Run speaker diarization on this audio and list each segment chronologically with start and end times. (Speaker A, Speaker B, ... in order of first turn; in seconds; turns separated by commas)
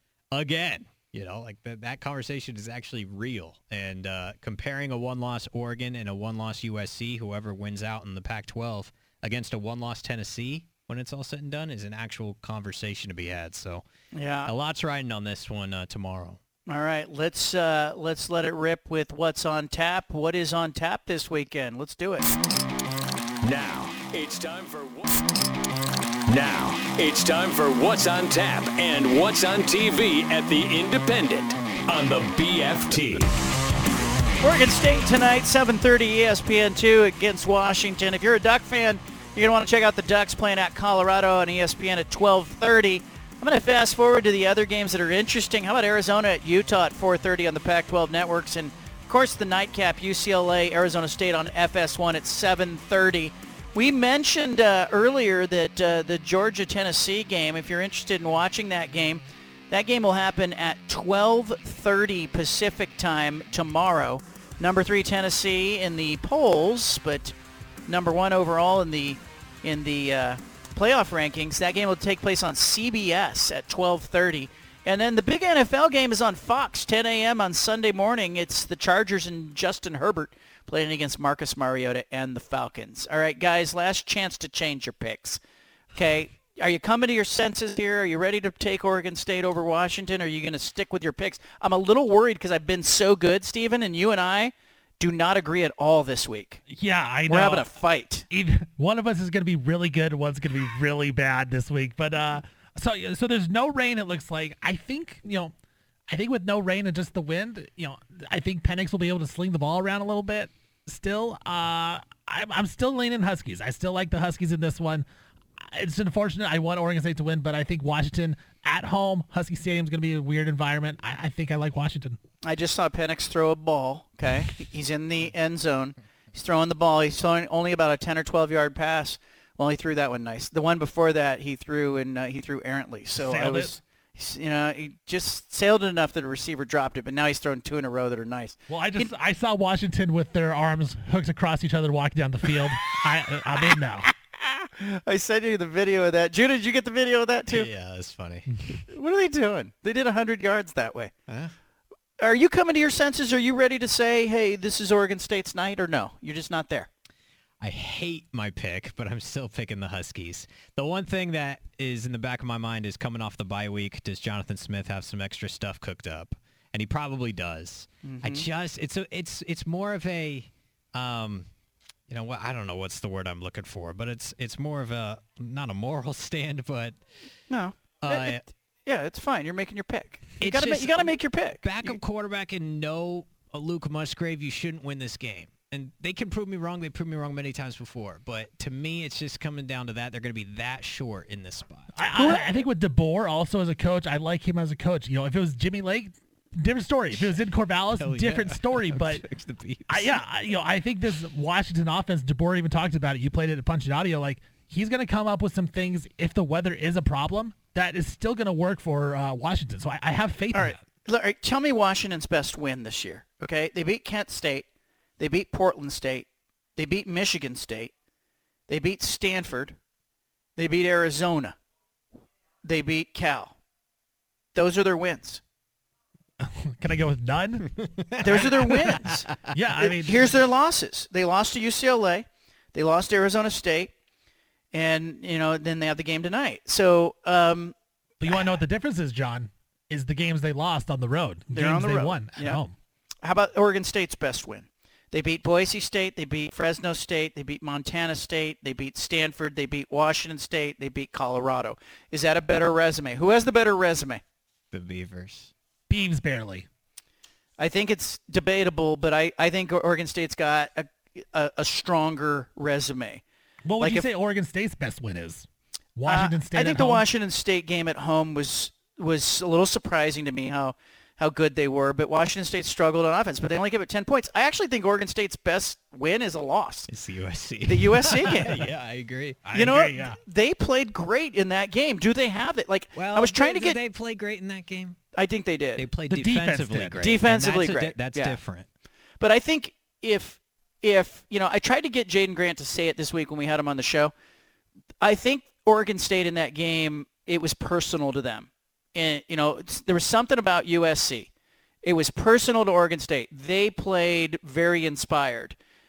Speaker A: 0.3-13.8, Speaker B: 14.1-14.5, Speaker A: 14.5-16.4, Speaker B: 16.7-22.3, Speaker C: 23.4-25.2, Speaker C: 26.3-33.3, Speaker B: 34.4-67.3, Speaker B: 67.9-85.4, Speaker B: 86.0-96.6, Speaker D: 96.7-97.7, Speaker B: 97.3-98.3, Speaker D: 98.3-105.5, Speaker D: 106.1-115.0, Speaker D: 115.7-122.2, Speaker B: 122.4-139.1, Speaker D: 133.2-133.7, Speaker D: 138.7-144.1, Speaker B: 144.4-147.7, Speaker A: 147.5-148.5, Speaker B: 148.9-151.1, Speaker A: 151.3-151.5, Speaker B: 152.2-156.9, Speaker A: 157.6-171.5, Speaker B: 168.0-168.5, Speaker A: 172.1-177.0, Speaker B: 177.5-182.0, Speaker A: 178.0-178.4, Speaker A: 180.4-192.4, Speaker D: 192.0-199.2, Speaker A: 197.1-197.4, Speaker A: 198.0-200.2, Speaker D: 199.9-210.8, Speaker B: 210.5-214.7, Speaker B: 215.2-217.9, Speaker B: 218.7-219.8, Speaker B: 220.6-221.6, Speaker B: 222.6-223.6, Speaker B: 224.5-225.4, Speaker D: 226.4-227.7, Speaker A: 227.8-229.5, Speaker B: 228.2-233.9, Speaker D: 228.3-230.3, Speaker B: 234.7-237.8, Speaker D: 238.2-242.7, Speaker B: 241.5-242.6, Speaker B: 243.2-254.2, Speaker A: 254.7-255.5, Speaker D: 255.9-256.7, Speaker B: 257.6-263.2, Speaker D: 263.6-267.1, Speaker B: 263.8-264.1, Speaker B: 266.1-276.9, Speaker A: 276.9-279.4, Speaker B: 277.6-278.6, Speaker D: 279.5-280.2, Speaker B: 279.5-283.8, Speaker A: 282.9-285.0, Speaker B: 285.1-285.9, Speaker A: 285.8-288.7, Speaker D: 286.1-287.0, Speaker B: 287.0-288.4, Speaker B: 289.2-294.1, Speaker B: 295.0-301.3, Speaker B: 301.8-305.6